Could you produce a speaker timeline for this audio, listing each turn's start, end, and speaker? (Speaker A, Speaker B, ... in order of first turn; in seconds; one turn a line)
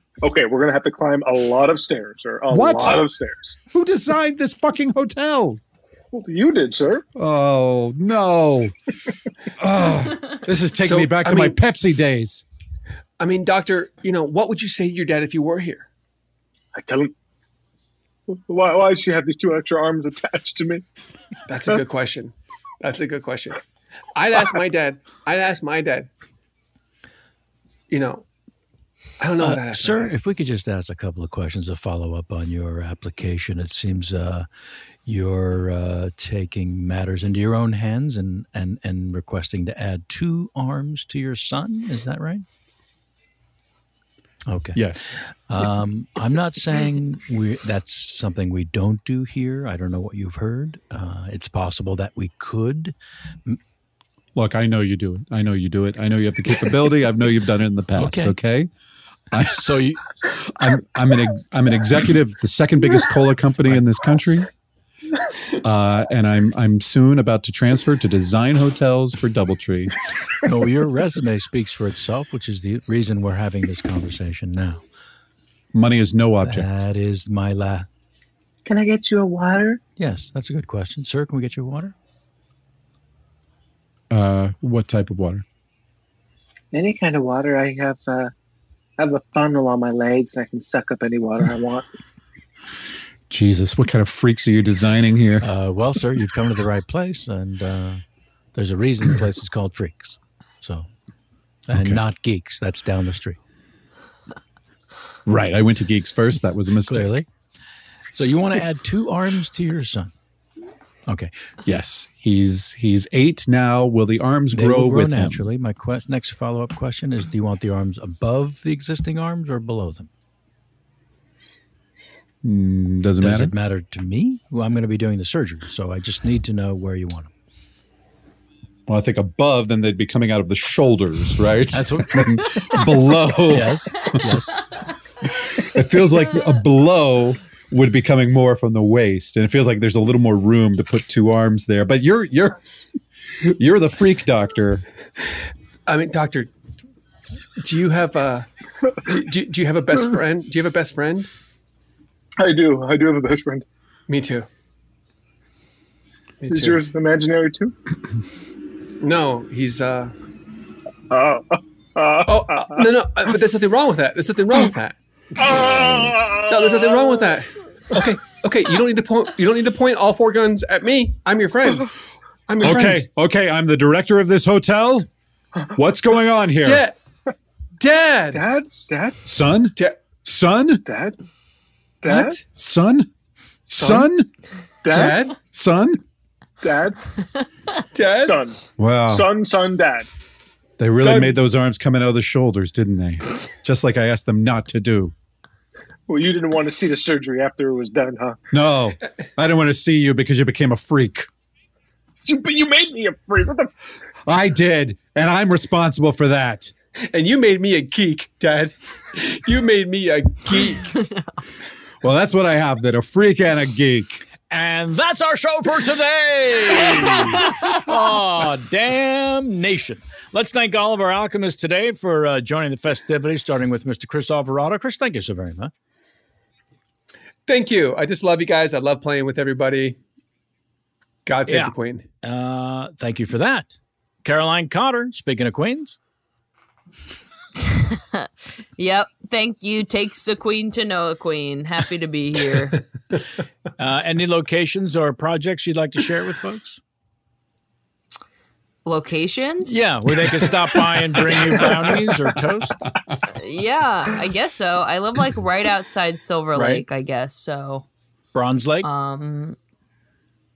Speaker A: 0.2-3.6
Speaker B: 2.5-3.0
Speaker B: 3.7-5.6
Speaker A: 6.1-7.0
Speaker B: 7.2-8.7
Speaker B: 9.6-12.4
Speaker C: 10.8-11.6
Speaker C: 13.2-15.9
Speaker A: 16.7-17.1
Speaker A: 18.3-20.8
Speaker C: 21.5-23.6
Speaker C: 24.1-26.1
Speaker C: 27.9-28.2
Speaker C: 29.2-30.1
Speaker D: 29.4-34.5
Speaker D: 35.0-42.4
Speaker D: 44.5-44.9
Speaker B: 44.8-45.0
Speaker D: 45.5-52.9
Speaker B: 54.4-58.7
Speaker D: 58.0-58.4
Speaker B: 59.3-59.6
Speaker D: 59.4-60.0
Speaker B: 60.5-64.5
Speaker B: 65.6-69.9
Speaker D: 70.4-74.8
Speaker B: 75.7-76.7
Speaker D: 76.4-77.9
Speaker A: 78.7-79.8
Speaker D: 80.0-81.9
Speaker B: 84.1-85.4
Speaker A: 86.7-88.3
Speaker A: 89.0-91.9
Speaker B: 93.3-95.4
Speaker D: 95.4-98.0
Speaker D: 98.5-100.9
Speaker D: 101.7-103.4
Speaker B: 101.7-102.0
Speaker B: 105.2-107.2
Speaker D: 106.9-107.3
Speaker D: 108.1-110.1
Speaker B: 111.7-115.5
Speaker D: 114.5-120.1
Speaker B: 122.4-123.5
Speaker D: 123.2-127.3
Speaker B: 128.9-134.4
Speaker D: 131.7-132.3
Speaker D: 133.5-134.6
Speaker B: 135.4-142.6
Speaker B: 143.4-144.8
Speaker C: 145.9-146.5
Speaker C: 147.6-148.5
Speaker C: 149.1-151.3
Speaker A: 152.4-153.6
Speaker C: 154.1-154.5
Speaker C: 156.4-156.8
Speaker A: 156.5-157.7
Speaker C: 159.0-160.1
Speaker A: 161.1-162.9
Speaker C: 162.2-164.9
Speaker A: 165.4-167.4
Speaker C: 165.5-165.9
Speaker C: 166.5-171.9
Speaker C: 172.5-173.1
Speaker B: 172.6-175.1
Speaker B: 175.8-176.8
Speaker C: 176.6-176.9
Speaker C: 177.8-178.5
Speaker A: 178.3-179.2
Speaker B: 179.2-180.8
Speaker A: 180.8-181.2
Speaker A: 182.0-182.4
Speaker C: 182.1-182.4
Speaker B: 182.5-183.1
Speaker B: 183.7-184.3
Speaker A: 183.8-184.1
Speaker A: 184.8-185.2
Speaker C: 184.9-185.3
Speaker B: 185.4-186.0
Speaker A: 186.6-187.0
Speaker C: 187.9-188.4
Speaker A: 188.2-190.1
Speaker B: 188.8-189.3
Speaker B: 190.8-195.1
Speaker A: 191.0-191.4
Speaker A: 196.1-198.4
Speaker B: 198.5-201.3
Speaker A: 202.2-203.7
Speaker B: 204.3-206.7
Speaker C: 207.1-210.9
Speaker E: 210.9-211.3
Speaker B: 212.0-214.2
Speaker D: 214.5-225.7
Speaker C: 227.5-229.9
Speaker C: 231.2-232.0
Speaker D: 231.5-231.7
Speaker D: 232.2-236.0
Speaker E: 237.6-242.8
Speaker D: 243.8-246.8
Speaker E: 248.8-249.8
Speaker D: 249.6-252.9
Speaker E: 253.4-257.9
Speaker D: 256.5-256.8
Speaker D: 258.3-258.9
Speaker E: 258.8-259.6